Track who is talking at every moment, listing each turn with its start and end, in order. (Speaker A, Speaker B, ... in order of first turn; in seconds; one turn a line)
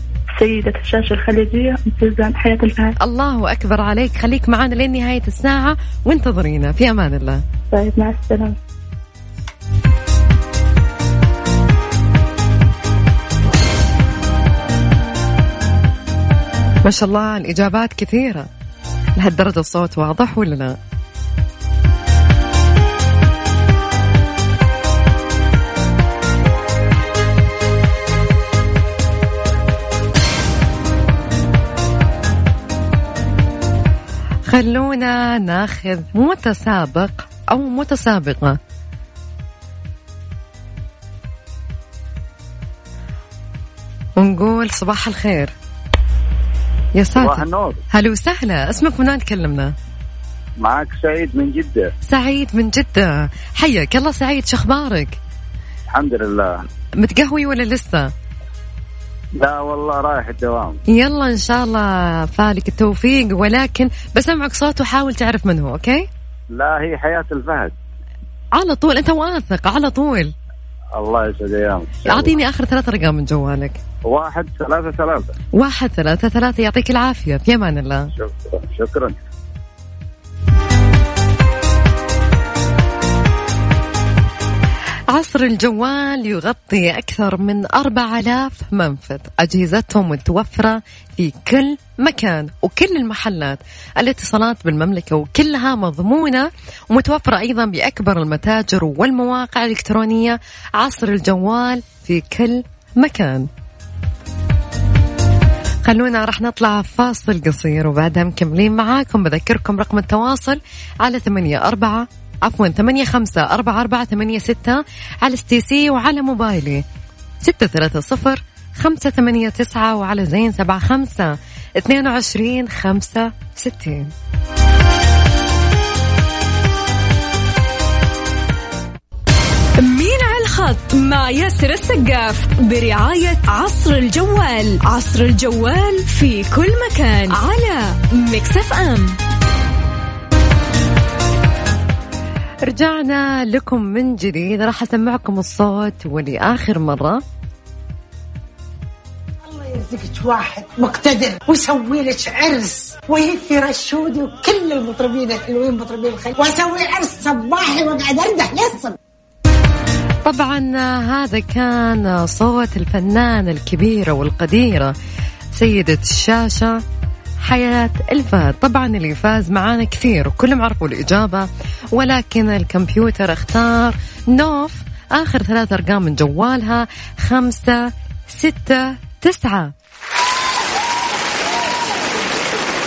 Speaker A: 0.4-2.9
Speaker B: 3.0-7.4
Speaker A: 7.7-8.6
Speaker B: 16.8-18.5
Speaker B: 19.2-20.8
Speaker B: 34.5-38.6
Speaker B: 44.2-45.5
Speaker B: 46.9-49.7
Speaker C: 47.2-47.8
Speaker C: 50.6-51.9
Speaker B: 52.1-55.2
Speaker C: 55.9-56.6
Speaker B: 57.0-58.1
Speaker C: 59.4-60.8
Speaker B: 60.9-66.1
Speaker C: 66.5-67.7
Speaker B: 68.5-70.3
Speaker C: 70.9-72.3
Speaker B: 72.0-73.8
Speaker C: 74.0-75.3
Speaker B: 75.5-78.1
Speaker C: 78.2-79.2
Speaker B: 85.1-103.5
Speaker B: 105.8-116.8
Speaker B: 117.4-124.1
Speaker D: 129.8-139.2
Speaker B: 142.7-147.2
Speaker E: 149.4-158.9
Speaker B: 160.2-164.9
Speaker B: 165.5-166.8
Speaker B: 167.4-179.7